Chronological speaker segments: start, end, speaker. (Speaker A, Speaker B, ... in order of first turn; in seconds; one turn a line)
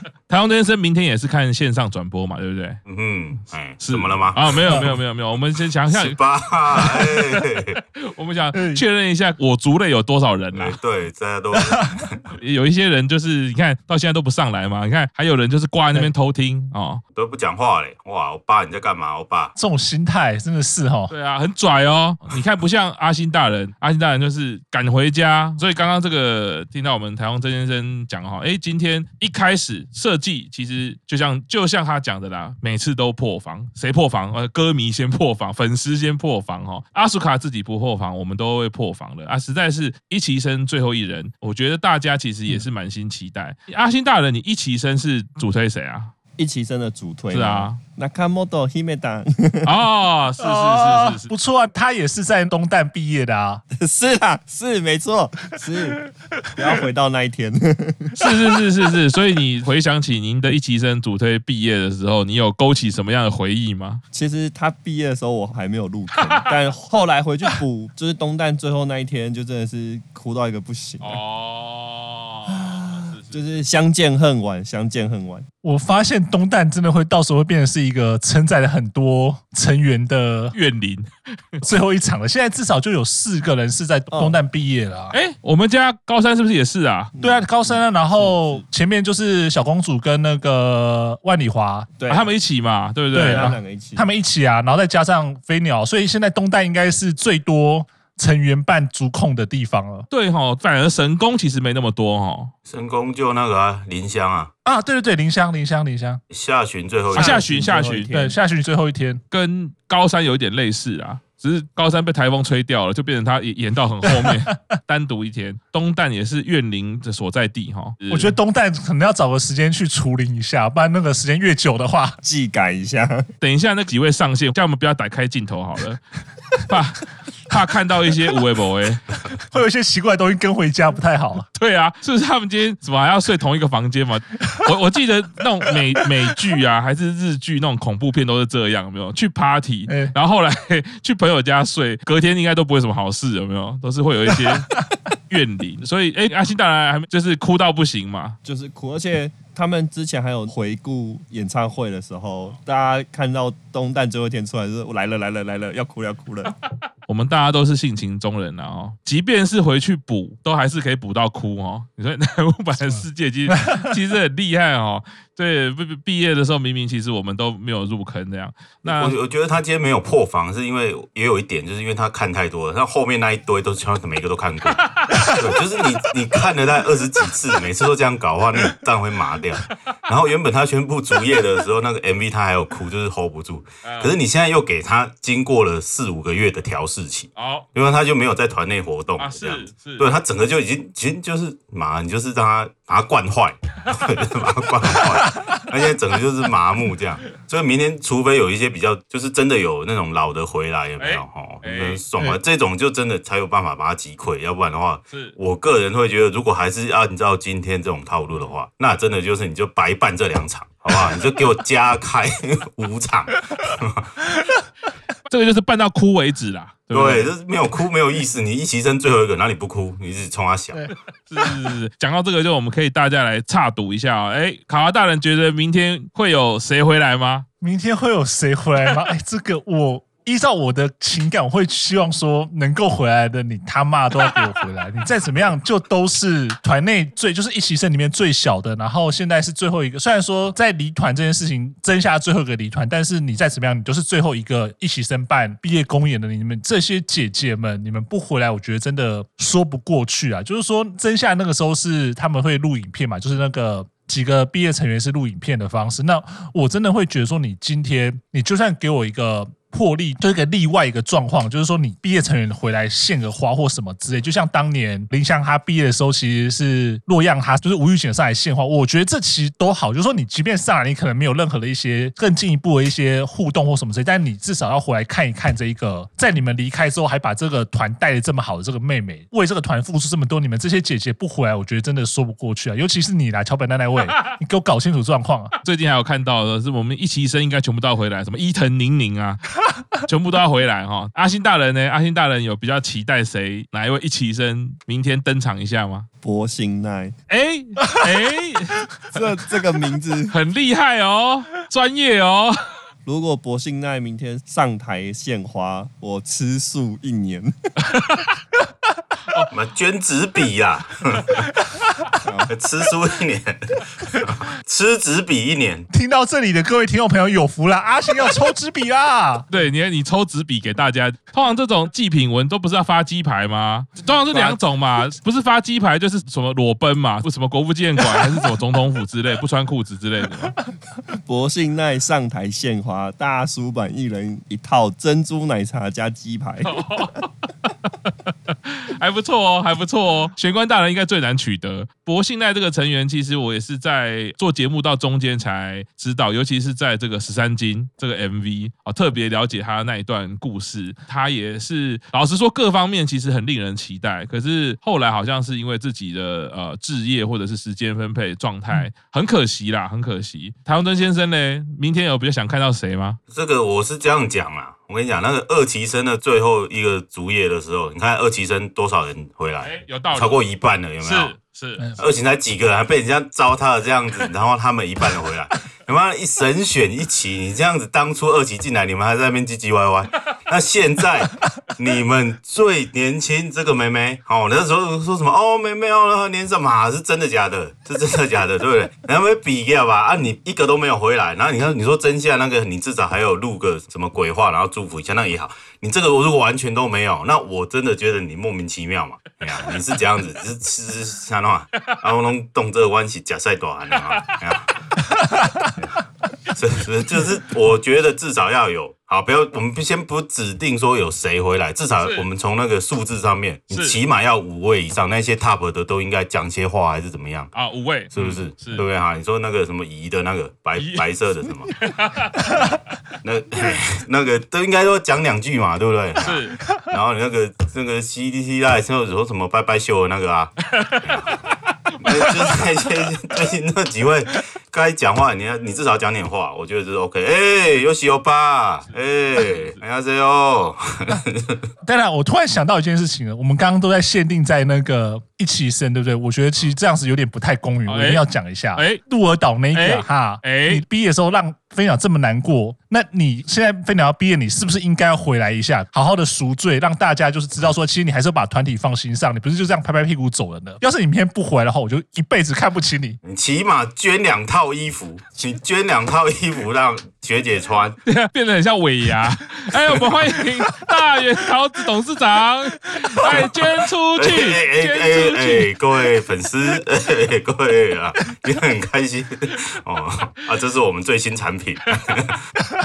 Speaker A: 0.3-2.8
Speaker B: 2.9-4.9
Speaker A: 3.8-6.2
Speaker B: 5.9-7.8
Speaker A: 6.8-7.2
Speaker A: 8.0-10.8
Speaker C: 8.5-8.8
Speaker B: 10.5-12.3
Speaker A: 12.4-17.0
Speaker B: 17.1-19.5
Speaker C: 19.6-21.1
Speaker A: 21.1-46.1
Speaker D: 46.4-49.7
Speaker A: 47.3-47.8
Speaker A: 49.6-51.3
Speaker C: 50.4-53.6
Speaker D: 53.7-58.2
Speaker A: 58.2-64.0
Speaker D: 64.1-71.2
Speaker A: 71.0-73.4
Speaker D: 73.3-75.5
Speaker C: 75.6-80.5
Speaker A: 80.5-81.6
Speaker C: 81.6-85.1
Speaker D: 84.1-84.4
Speaker A: 85.1-87.1
Speaker D: 87.1-88.6
Speaker C: 87.2-91.9
Speaker D: 92.0-92.2
Speaker A: 92.1-93.6
Speaker D: 93.1-94.0
Speaker C: 93.1-100.1
Speaker A: 100.1-102.5
Speaker B: 102.7-104.5
Speaker C: 104.6-106.2
Speaker B: 106.3-107.4
Speaker A: 107.1-108.1
Speaker D: 107.1-108.4
Speaker C: 108.1-109.2
Speaker A: 109.3-118.3
Speaker C: 118.1-122.2
Speaker D: 122.2-123.3
Speaker A: 123.4-126.0
Speaker A: 126.5-129.1
Speaker C: 129.5-131.5
Speaker A: 131.5-144.7
Speaker C: 139.9-140.1
Speaker A: 145.3-148.4
Speaker D: 148.4-156.5
Speaker A: 157.1-169.2
Speaker B: 168.8-214.1
Speaker A: 174.7-175.3
Speaker A: 183.8-184.1
Speaker A: 187.3-187.7
Speaker A: 189.2-190.1
Speaker A: 201.0-202.0
Speaker A: 215.3-217.3
Speaker B: 216.9-220.9
Speaker A: 221.3-227.4
Speaker C: 227.6-285.5
Speaker A: 285.6-289.4
Speaker A: 290.0-296.1
Speaker D: 296.2-297.1
Speaker A: 297.3-298.8
Speaker D: 299.1-300.3
Speaker A: 300.3-302.6
Speaker D: 303.0-307.5
Speaker A: 307.9-308.2
Speaker B: 309.5-311.4
Speaker D: 312.2-312.5
Speaker B: 312.5-315.9
Speaker C: 315.9-319.5
Speaker A: 319.5-330.6
Speaker D: 324.3-324.6
Speaker D: 331.2-336.8
Speaker A: 336.6-363.2
Speaker B: 363.3-371.3
Speaker A: 369.6-370.4
Speaker A: 371.0-371.9
Speaker B: 372.0-404.8
Speaker B: 405.8-417.5
Speaker A: 413.7-414.0
Speaker A: 417.5-418.8
Speaker B: 418.1-421.8
Speaker A: 420.8-421.1
Speaker A: 421.8-422.7
Speaker B: 423.2-431.4
Speaker A: 426.2-426.6
Speaker A: 430.7-432.5
Speaker B: 432.0-441.6
Speaker A: 439.5-439.8
Speaker C: 441.8-463.2
Speaker A: 447.9-449.0
Speaker A: 449.7-450.8
Speaker B: 463.2-468.0
Speaker A: 468.1-475.7
Speaker B: 473.2-473.5
Speaker B: 474.2-482.4